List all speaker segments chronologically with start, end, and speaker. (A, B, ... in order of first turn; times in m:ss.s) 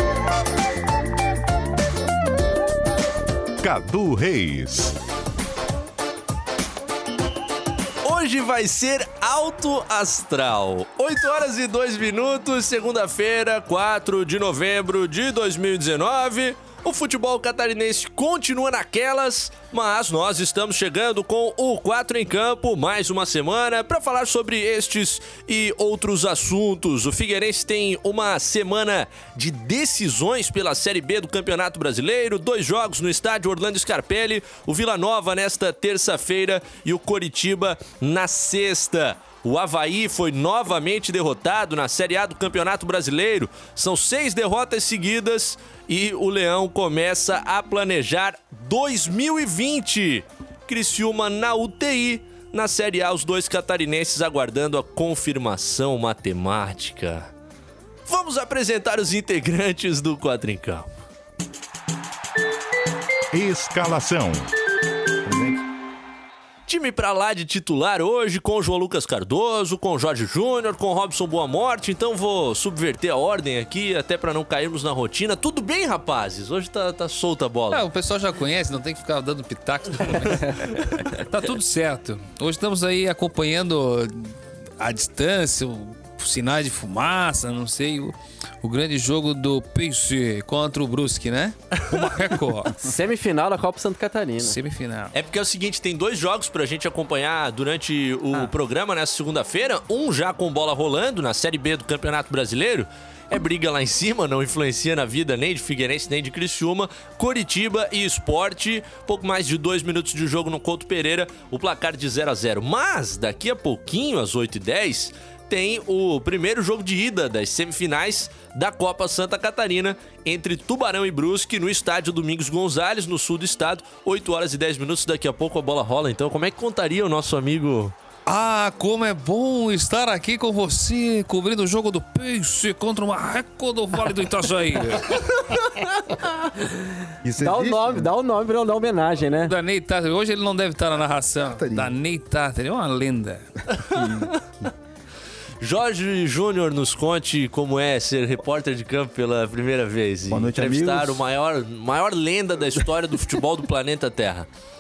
0:03.6-0:05.0 A
0:08.0-0:57.3 B
0:58.1-1:00.9 B
1:03.3-1:04.5 A
1:05.3-1:05.6 C
1:06.7-1:17.8 B
1:17.7-1:24.3 D
1:24.8-1:32.8 D
1:32.8-1:34.6 E
1:34.4-1:35.1 D
1:35.1-2:08.0 B
2:08.3-2:15.2 D
2:17.2-2:18.1 C
2:17.4-2:19.5 E
2:19.5-2:23.4 D
2:21.5-2:22.0 C
2:23.9-2:24.4 B
2:25.6-2:34.5 B
2:30.3-2:31.2 C